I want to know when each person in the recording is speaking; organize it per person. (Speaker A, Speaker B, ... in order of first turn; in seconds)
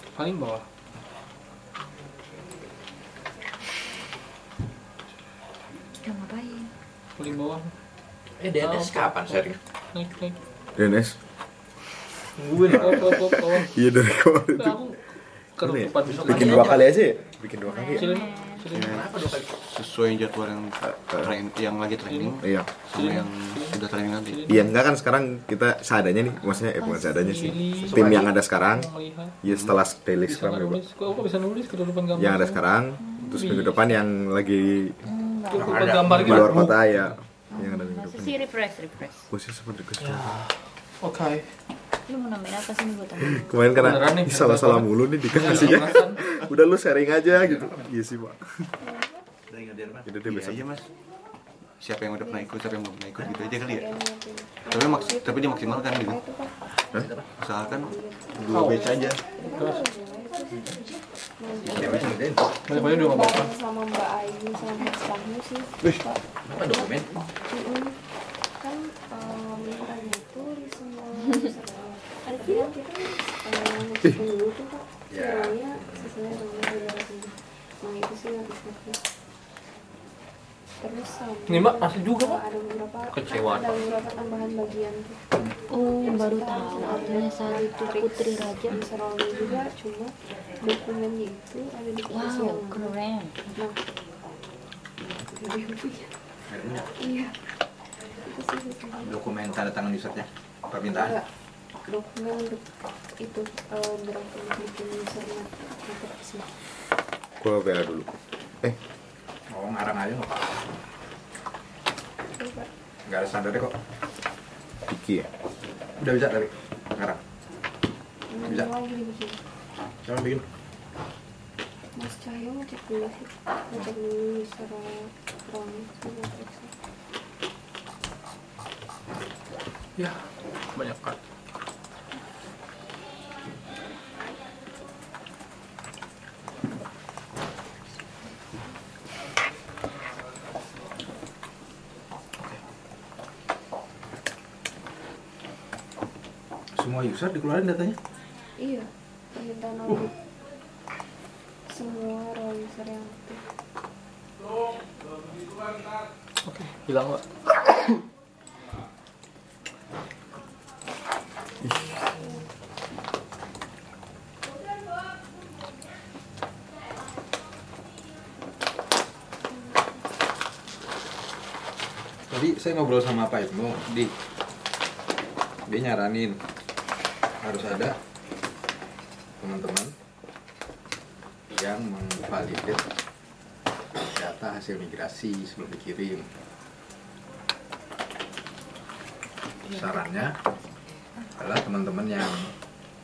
Speaker A: 0.1-0.6, 7.2-7.7, 8.6-9.4, 9.9-10.3, 12.5-13.7, 14.6-15.0, 15.6-16.8, 17.9-19.1, 22.1-22.4, 22.9-24.7, 26.8-29.4, 30.2-32.6, 33.3-33.9, 35.5-36.9, 40.0-40.5, 41.0-41.4, 43.7-46.2, 58.5-59.0, 59.6-59.8, 62.7-63.5, 81.5-82.4, 83.1-83.8, 130.7-131.2, 156.4-157.2
Speaker B: 6.0-6.7, 17.7-18.6, 35.0-35.8, 37.6-39.3, 42.1-43.5, 85.7-88.8, 92.1-93.3
Speaker C: 8.4-9.6, 12.4-13.0, 16.1-16.8, 18.9-19.5, 27.9-28.2, 35.5-36.5, 47.4-47.8, 49.5-50.1, 57.0-57.3, 61.6-62.5, 66.5-67.1, 75.1-76.0, 96.5-96.9, 99.0-101.2, 109.5-110.4, 113.1-113.7, 116.0-117.2, 118.4-118.7, 120.0-120.4, 146.8-148.0, 172.3-174.1, 175.7-176.4, 177.4-178.0, 179.4-179.9, 181.5-182.8, 184.0-186.3, 189.7-190.3, 191.4-192.5
Speaker D: 10.8-11.2, 12.8-14.8, 15.6-18.1, 20.8-21.3, 22.4-22.7, 24.5-28.9, 29.4-30.8, 32.1-35.0, 36.1-38.4, 39.3-40.4, 43.3-48.7, 50.0-50.7, 107.4-108.1, 114.9-115.3
Speaker E: 18.7-24.5, 50.2-50.9, 51.8-53.9, 54.7-56.2, 57.4-59.2
Speaker F: 53.3-56.5, 57.6-60.7, 61.4-62.2, 62.7-68.0, 68.6-79.0, 80.8-85.2, 85.9-92.9, 93.5-93.8, 95.3-96.1, 97.0-97.3, 98.2-99.2, 100.9-101.2, 101.9-102.6, 103.2-106.5, 112.3-112.7, 118.3-119.4, 121.9-126.7, 148.6-150.1, 151.7-153.4